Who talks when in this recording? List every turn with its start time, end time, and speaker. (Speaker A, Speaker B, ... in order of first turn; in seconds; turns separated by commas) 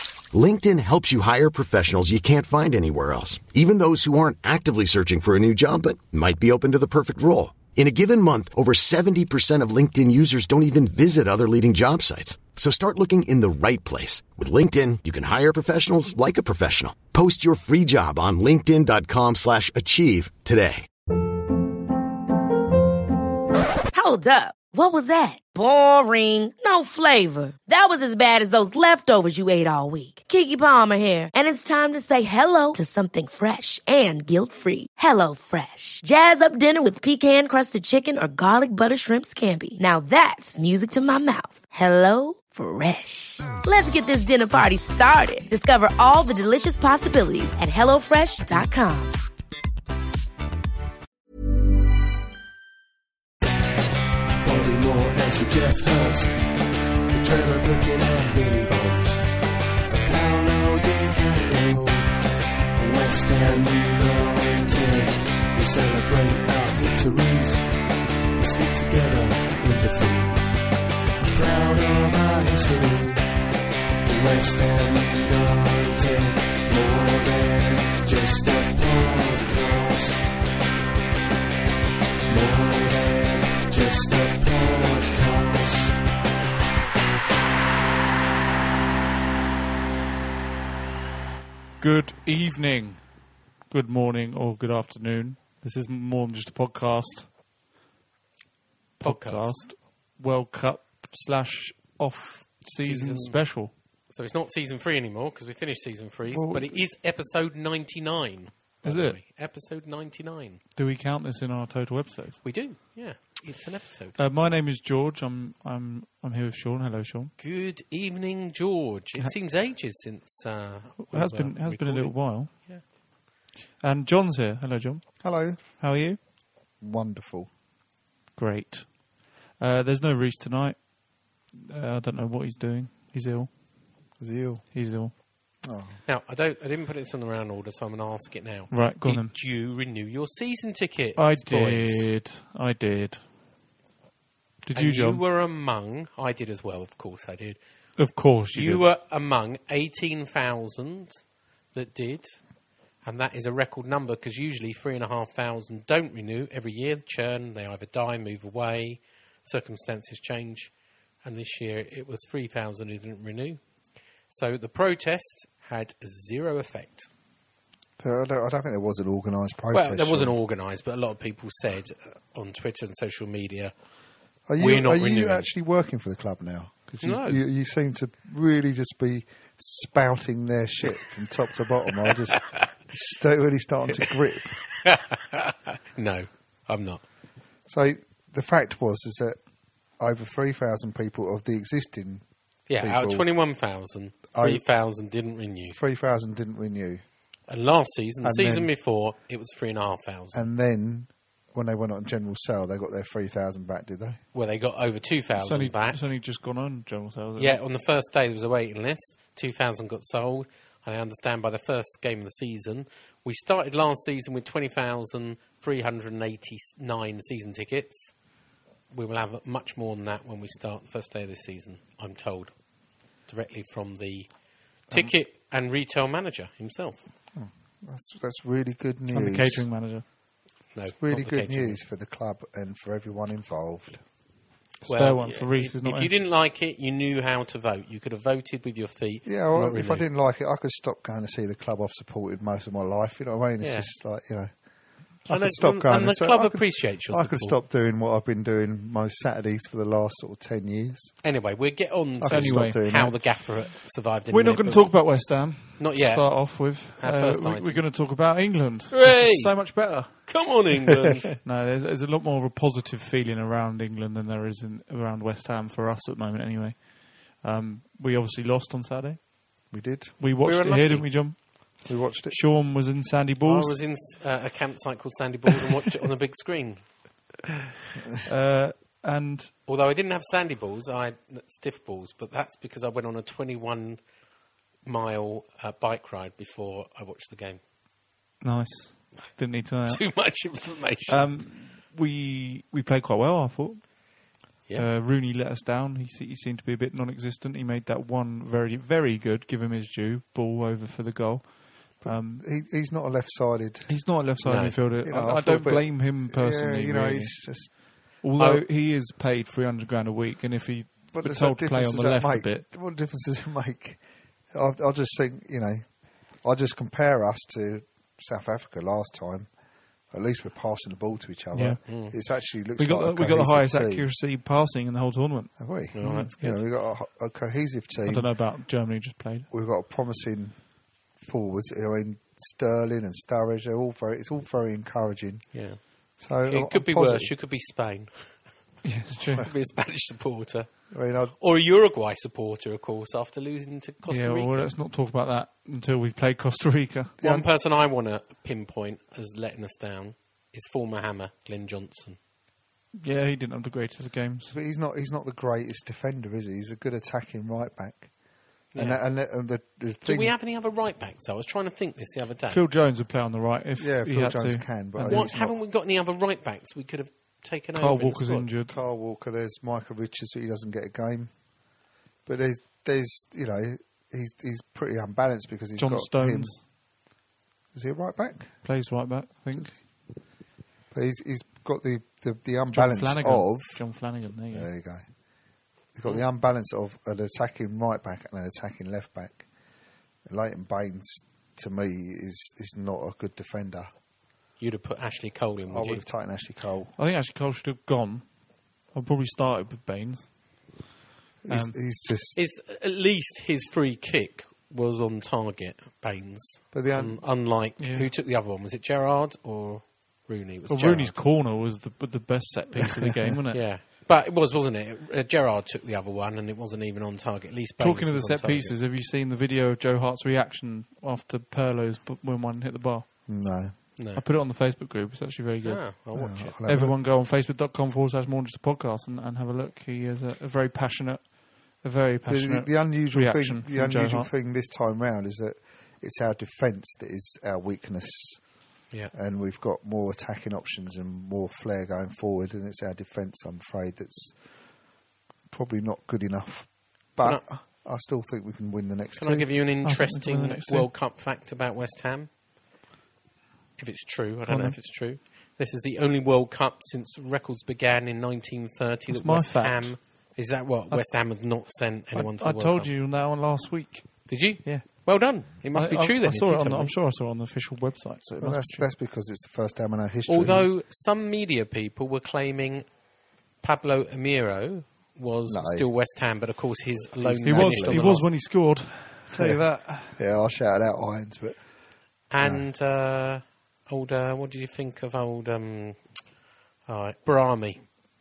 Speaker A: 0.3-20.9, Speaker B: 23.9-49.2, Speaker C: 54.4-56.5, Speaker C: 57.1-59.3, Speaker C: 59.9-62.1, Speaker C: 62.8-67.8, Speaker C: 68.4-70.5, Speaker C: 71.3-73.3, Speaker C: 74.0-80.3, Speaker C: 82.3-86.0, Speaker D: 91.8-93.0, Speaker D: 93.7-97.3, Speaker E: 99.0-99.6, Speaker D: 99.0-103.7, Speaker E: 102.8-103.4, Speaker E: 104.1-110.6, Speaker D: 106.3-106.8, Speaker D: 108.8-109.2, Speaker D: 110.8-112.5, Speaker E: 112.4-114.2, Speaker D: 114.2-117.3, Speaker E: 117.4-122.8, Speaker D: 121.0-122.5, Speaker D: 123.8-126.2, Speaker F: 125.2-125.6, Speaker F: 126.8-127.5, Speaker D: 128.4-130.8, Speaker D: 131.5-133.5, Speaker F: 134.2-134.6, Speaker D: 134.7-135.1, Speaker F: 135.6-136.0, Speaker E: 136.1-142.1, Speaker D: 138.7-139.4, Speaker D: 141.2-143.2, Speaker D: 144.7-145.2, Speaker E: 144.7-147.6, Speaker D: 148.0-148.9, Speaker E: 148.5-151.2, Speaker E: 151.7-152.4, Speaker E: 153.0-163.6, Speaker E: 164.3-167.1, Speaker F: 168.0-170.3, Speaker E: 169.7-173.7, Speaker F: 174.5-184.6, Speaker E: 174.6-175.5, Speaker E: 177.0-177.5, Speaker E: 182.4-182.7, Speaker E: 184.7-187.0, Speaker F: 187.7-189.4, Speaker F: 190.0-192.2, Speaker E: 192.7-195.8, Speaker F: 192.8-193.3, Speaker F: 194.3-194.6, Speaker F: 195.7-197.0, Speaker E: 197.5-200.5, Speaker F: 198.2-198.7, Speaker F: 200.3-204.2, Speaker E: 204.3-206.0, Speaker D: 205.4-207.6, Speaker E: 207.4-218.1, Speaker E: 218.9-222.5, Speaker E: 223.3-224.3, Speaker E: 224.9-227.1, Speaker F: 227.3-229.7, Speaker D: 229.1-230.1, Speaker E: 230.7-231.8, Speaker F: 230.9-234.0, Speaker D: 234.8-236.1, Speaker E: 234.8-240.1, Speaker F: 239.2-244.5, Speaker E: 243.6-243.9, Speaker F: 245.2-251.2, Speaker E: 245.3-247.6, Speaker E: 251.2-255.0, Speaker F: 252.2-253.2, Speaker D: 252.3-253.1, Speaker D: 254.3-260.5, Speaker E: 255.8-257.9, Speaker E: 258.9-261.3, Speaker D: 261.4-269.3, Speaker F: 269.7-270.1, Speaker D: 270.2-273.8, Speaker E: 270.4-271.1, Speaker F: 271.8-272.4, Speaker E: 273.4-276.9, Speaker D: 278.2-279.5, Speaker E: 279.7-284.0, Speaker E: 284.9-287.6, Speaker D: 288.4-290.4, Speaker E: 289.9-291.3, Speaker D: 291.1-294.0, Speaker D: 294.7-302.4, Speaker F: 302.0-303.9, Speaker D: 303.9-307.4, Speaker E: 304.4-304.8, Speaker F: 305.0-307.7, Speaker D: 308.2-312.7, Speaker E: 308.4-308.6, Speaker F: 311.1-314.0, Speaker F: 314.5-319.5, Speaker F: 320.1-324.1, Speaker D: 321.5-321.8, Speaker E: 321.9-322.1, Speaker D: 322.8-326.6, Speaker F: 325.6-328.3, Speaker E: 325.9-326.4, Speaker D: 328.1-329.5, Speaker F: 329.5-330.6, Speaker F: 331.2-335.5, Speaker E: 335.5-335.8, Speaker F: 336.2-337.3, Speaker E: 336.5-338.4, Speaker D: 338.8-339.5, Speaker E: 339.4-340.7, Speaker F: 340.9-341.4, Speaker E: 341.3-344.7, Speaker D: 344.1-347.2, Speaker E: 347.2-352.2, Speaker D: 353.0-354.6, Speaker F: 354.5-358.1, Speaker E: 358.7-359.0, Speaker F: 358.7-360.3, Speaker E: 360.1-362.6, Speaker D: 362.5-365.3, Speaker F: 363.8-365.6, Speaker E: 365.0-368.5, Speaker D: 367.8-368.8, Speaker F: 368.7-371.3, Speaker F: 372.3-376.6, Speaker D: 375.8-376.6, Speaker F: 377.7-378.6, Speaker D: 378.6-379.8, Speaker F: 380.9-383.8, Speaker D: 382.7-384.7, Speaker F: 384.5-385.0, Speaker F: 385.9-389.5, Speaker F: 390.3-393.9, Speaker E: 394.6-396.0, Speaker F: 395.7-396.9, Speaker D: 397.0-398.2, Speaker D: 398.9-400.3, Speaker F: 401.4-402.4, Speaker D: 401.5-401.8, Speaker E: 402.4-411.2, Speaker F: 406.7-407.2, Speaker D: 407.8-408.1, Speaker D: 410.7-413.7, Speaker E: 413.5-418.8, Speaker D: 417.8-423.1, Speaker F: 423.3-423.8, Speaker E: 424.0-424.2, Speaker D: 424.2-426.0, Speaker E: 425.6-426.6, Speaker F: 426.1-427.0, Speaker D: 426.7-434.3, Speaker F: 432.3-438.4, Speaker F: 439.1-444.4, Speaker F: 445.5-449.5, Speaker E: 449.2-452.3, Speaker D: 449.8-450.9, Speaker E: 453.8-462.9, Speaker D: 454.5-454.8, Speaker D: 459.1-460.0, Speaker D: 462.1-468.9, Speaker E: 464.3-466.9, Speaker F: 468.4-470.7, Speaker E: 470.3-472.9, Speaker E: 473.6-478.3, Speaker F: 475.5-475.9, Speaker F: 477.2-478.4, Speaker D: 477.4-480.2, Speaker F: 480.1-481.6, Speaker E: 482.3-486.2, Speaker F: 482.4-482.7, Speaker E: 486.9-487.9